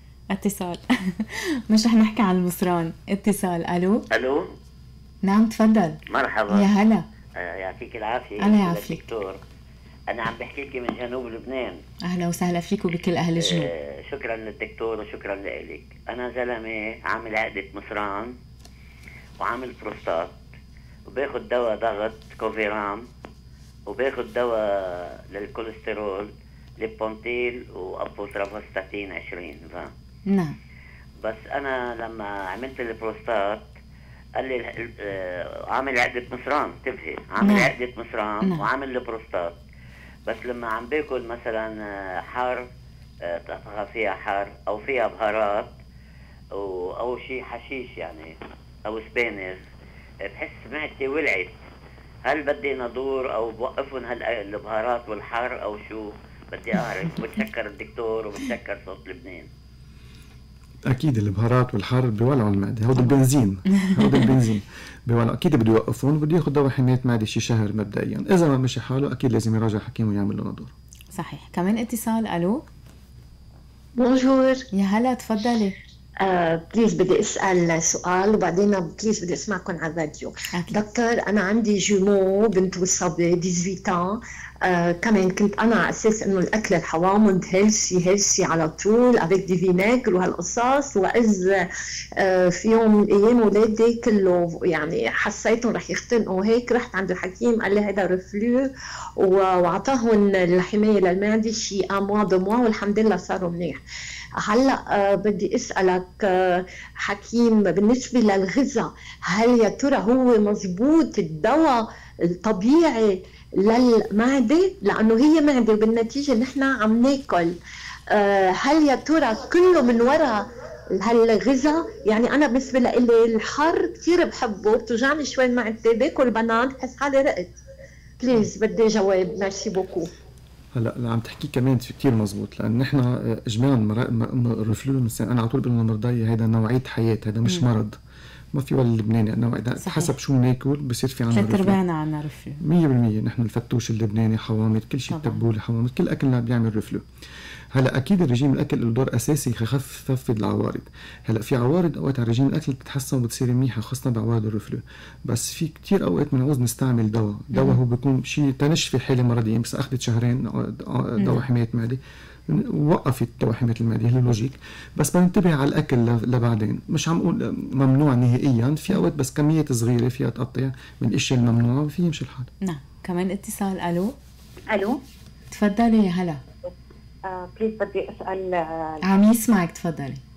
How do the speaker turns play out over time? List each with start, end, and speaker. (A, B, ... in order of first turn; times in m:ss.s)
0:00.3-0:04.0 A
0:04.1-0:04.5 B
0:05.2-0:07.0 A
0:06.1-0:06.7 B
0:07.4-0:09.4 B
0:08.4-0:09.0 A
0:10.1-0:11.8 B
0:12.0-0:13.7 A
0:13.4-0:18.3 B
0:19.4-0:20.4 B
0:21.1-0:23.0 B
0:23.9-0:29.9 B
0:30.3-0:30.6 A
0:31.2-0:33.7 B
0:34.4-0:39.6 B
0:37.4-0:37.7 A
0:38.4-0:38.7 A
0:40.3-0:42.7 B
0:43.2-0:45.7 B
0:46.5-0:48.3 B
0:48.9-0:49.6 B
0:50.3-0:51.6 B
0:52.2-0:59.5 B
1:00.8-1:10.7 C
1:03.7-1:04.3 A
1:11.1-1:12.6 A
1:14.0-1:14.7 D
1:14.7-1:15.8 A
1:16.2-1:31.6 D
1:20.5-1:20.8 A
1:32.2-1:38.7 D
1:39.2-1:43.8 D
1:44.4-1:57.6 D
1:58.1-2:07.6 D
2:08.2-2:10.1 D
2:10.7-2:18.0 C
2:18.5-2:21.8 C
2:19.8-2:20.1 A
2:21.3-2:22.6 A
2:22.6-2:27.0 C
2:25.1-2:25.4 A
2:27.7-2:52.5 C
2:37.5-2:37.8 A
2:41.2-2:41.4 A
2:52.6-2:54.1 A
2:54.7-2:55.0 E
2:55.5-2:56.4 A
2:57.3-2:59.0 E
2:59.0-3:00.2 A